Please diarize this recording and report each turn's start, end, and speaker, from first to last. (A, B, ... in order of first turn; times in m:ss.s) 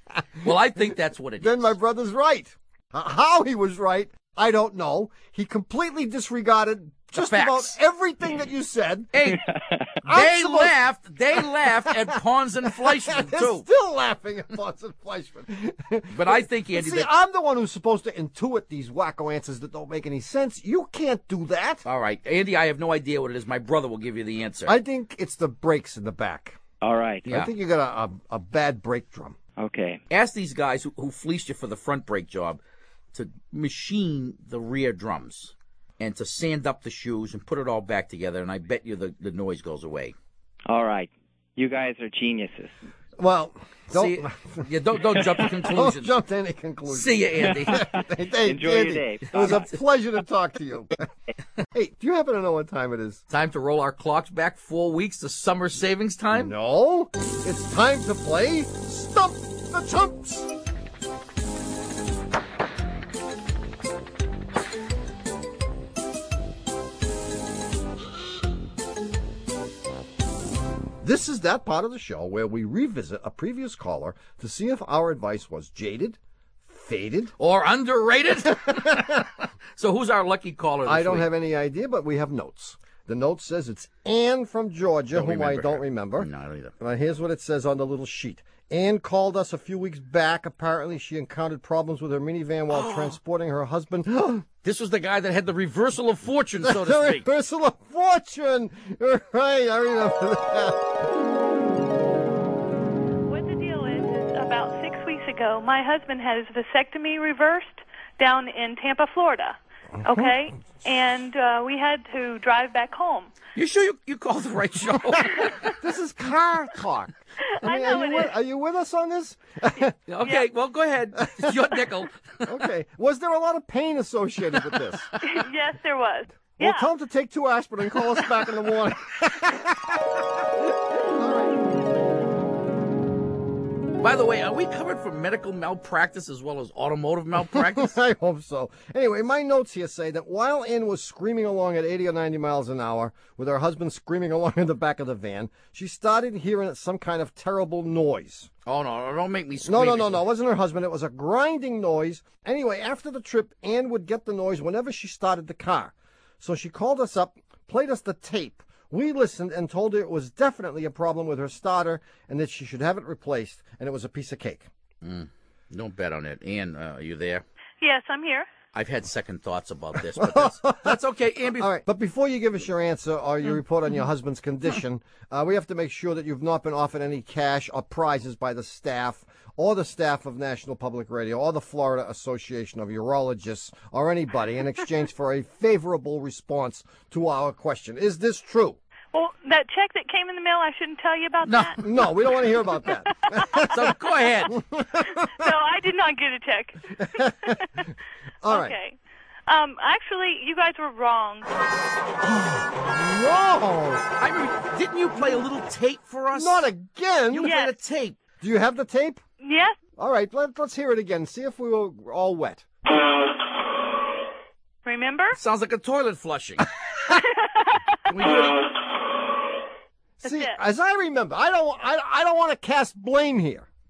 0:00.4-0:01.8 A
0:01.4-0:09.1 B
0:07.2-0:07.8 A
0:09.1-0:09.4 A
0:09.5-0:09.9 C
0:10.0-0:10.8 B
0:10.1-0:13.7 A
0:11.3-0:21.8 B
0:16.1-0:17.1 A
0:21.8-0:24.7 A
0:24.7-0:26.6 B
0:26.8-0:27.3 C
0:27.2-0:29.4 B
0:29.6-0:30.0 C
0:30.1-0:32.6 A
0:33.1-0:40.2 A
0:40.7-0:42.8 C
0:43.2-0:51.1 B
0:43.9-0:46.1 A
0:46.9-0:47.9 A
0:47.6-0:49.7 C
0:49.4-0:49.7 A
0:51.7-0:53.2 B
0:53.3-0:56.5 A
0:56.3-1:00.5 B
1:11.0-1:17.4 B
1:17.4-1:21.3 A
1:18.6-1:19.2 B
1:20.8-1:26.3 B
1:25.1-1:26.7 A
1:26.8-1:34.5 B
1:32.7-1:33.2 A
1:34.6-1:37.3 A
1:36.6-1:41.0 B
1:43.3-1:53.4 D
1:50.0-1:50.4 B
1:53.6-1:55.6 A
1:55.6-2:00.0 B
1:57.5-1:58.4 D
2:00.1-2:02.5 A
2:01.2-2:01.8 B
2:02.4-2:05.1 B
2:05.2-2:06.9 D
2:06.6-2:12.0 B
2:14.0-2:18.0 A
2:17.4-2:28.5 B
2:28.7-2:30.2 A
2:29.6-2:44.7 B
2:45.0-2:47.4 A
2:47.8-2:48.5 D
2:48.7-2:51.7 A
2:50.2-2:51.0 B
2:51.6-3:08.8 B
3:09.1-3:11.8 D
3:11.4-3:12.1 A
3:11.8-3:13.9 B
3:12.8-3:13.7 D
3:13.6-3:14.5 A
3:14.5-3:15.5 B
3:15.0-3:17.9 D
3:17.0-3:17.8 B
3:18.4-3:18.8 B
3:18.5-3:19.0 D
3:19.5-3:21.5 D
3:22.2-3:24.1 B
3:24.2-3:26.7 A
3:26.3-3:27.5 B
3:27.3-3:28.2 A
3:27.4-3:27.7 D
3:28.4-3:29.2 B
3:29.4-3:29.8 D
3:30.0-3:32.7 B
3:34.8-3:35.4 D
3:35.3-3:36.7 A
3:37.1-3:37.8 D
3:38.1-3:38.7 A
3:40.2-3:43.7 B
3:40.2-3:40.6 D